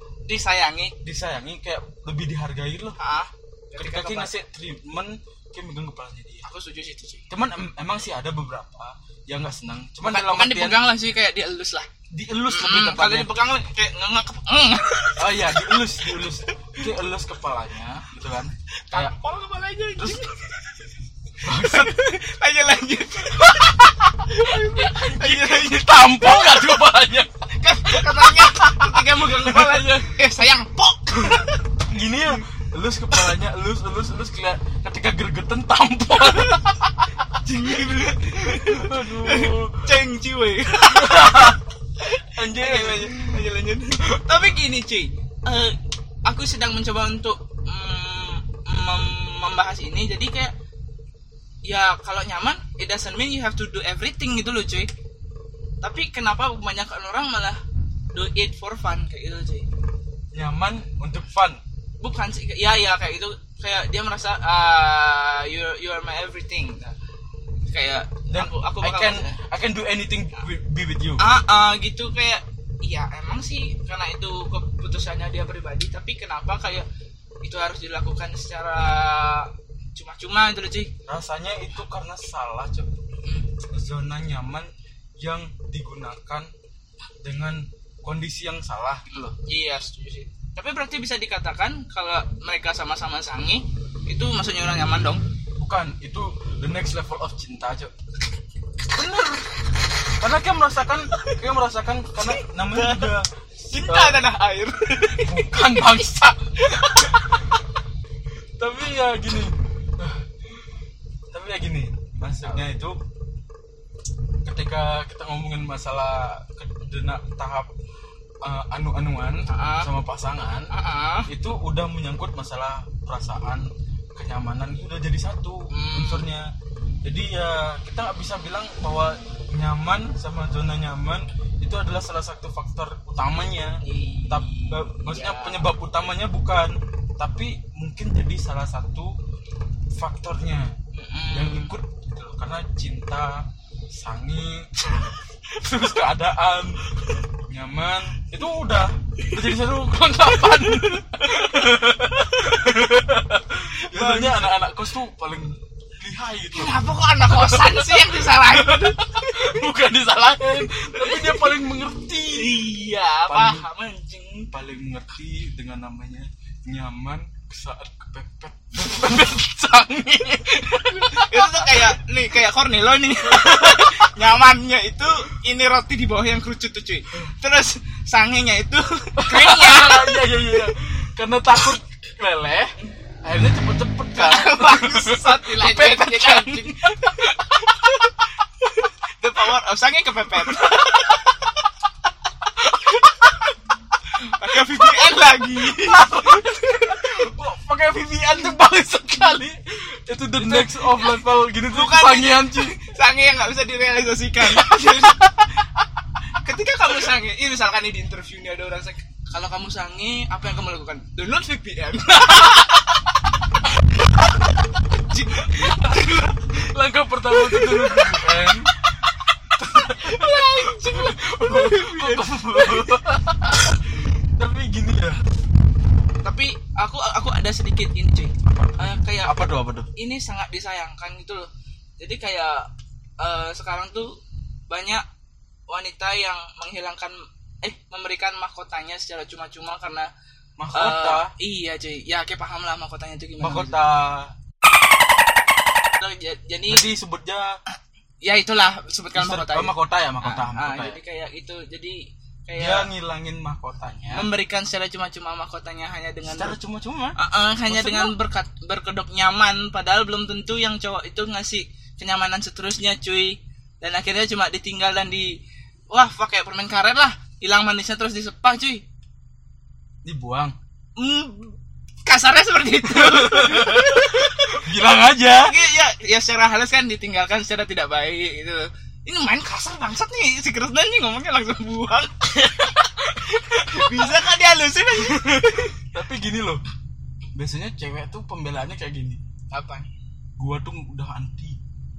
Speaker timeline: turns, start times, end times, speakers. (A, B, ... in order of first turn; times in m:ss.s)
0:00.3-0:01.0 A
0:01.0-0:03.0 B
0:03.0-0:04.4 A
0:03.8-0:06.4 B
0:06.4-0:07.3 A
0:07.3-0:10.9 B
0:10.0-0:11.9 A
0:12.1-0:13.3 B
0:12.5-0:16.8 A
0:15.2-0:19.2 B
0:18.9-0:20.6 A
0:20.0-0:20.3 B
0:21.4-0:22.2 B
0:21.4-0:26.8 A
0:23.3-0:30.2 B
0:27.5-0:32.4 A
0:31.2-0:36.9 B
0:36.2-0:36.7 A
0:37.3-0:50.5 A
0:38.4-0:40.0 B
0:40.9-0:41.6 B
0:42.3-0:43.4 B
0:51.6-0:54.9 A
0:55.8-0:57.6 A
0:58.1-0:59.7 A
1:00.3-1:01.6 B
1:02.0-1:07.0 A
1:07.7-1:09.4 A
1:08.3-1:11.2 B
1:11.2-1:16.9 A
1:17.4-1:20.9 A
1:21.1-1:23.0 B
1:23.2-1:23.5 A
1:23.6-1:26.5 B
1:27.2-1:29.4 B
1:29.3-1:35.2 A
1:35.6-1:37.9 B
1:38.9-1:44.2 B
1:41.1-1:41.4 A
1:42.2-1:46.0 A
1:45.1-1:47.2 B
1:46.6-1:47.6 A
1:48.6-1:50.6 B
1:51.3-1:53.0 B
1:54.4-1:57.7 B
1:58.4-2:00.7 B
1:59.5-1:59.9 A
2:00.7-2:01.3 A
2:01.3-2:06.5 B
2:05.7-2:06.3 A
2:07.0-2:19.2 B
2:13.8-2:15.7 A
2:19.9-2:20.7 B
2:20.9-2:21.7 A
2:21.3-2:26.8 B
2:27.4-2:42.6 B
2:31.2-2:32.7 A
2:33.7-2:34.6 A
2:36.5-2:39.7 A
2:40.8-2:41.5 A
2:42.3-2:44.5 A
2:43.3-2:43.7 B
2:44.5-2:52.0 B
2:50.7-3:00.3 A
2:53.2-2:54.4 B
2:59.2-3:08.0 B
3:04.1-3:08.1 A
3:08.8-3:11.7 A
3:10.4-3:11.3 B
3:12.5-3:13.5 A
3:14.1-3:17.3 A
3:14.5-3:22.9 B
3:20.4-3:25.5 A
3:26.4-3:33.1 A
3:35.0-3:36.4 A
3:35.4-3:38.8 B
3:37.3-3:38.2 A
3:39.6-3:45.2 B
3:39.8-3:43.0 A
3:46.2-3:51.5 A
3:48.4-3:49.9 B
3:52.0-3:55.0 A
3:55.7-4:00.1 A
4:00.6-4:01.3 B
4:00.7-4:03.8 A
4:03.4-4:04.3 B
4:06.0-4:07.0 A
4:06.7-4:07.6 B
4:08.2-4:12.9 A
4:09.1-4:11.0 B
4:12.6-4:14.3 B
4:14.1-4:16.6 A
4:16.2-4:18.2 B
4:17.2-4:25.4 A
4:25.9-4:28.8 A
4:30.0-4:30.6 B
4:31.0-4:34.7 A
4:32.9-4:35.6 B
4:35.3-4:45.8 A
4:43.7-4:44.2 B
4:45.1-4:46.6 B
4:47.4-4:49.2 B
4:49.5-4:49.9 A
4:50.4-4:51.6 B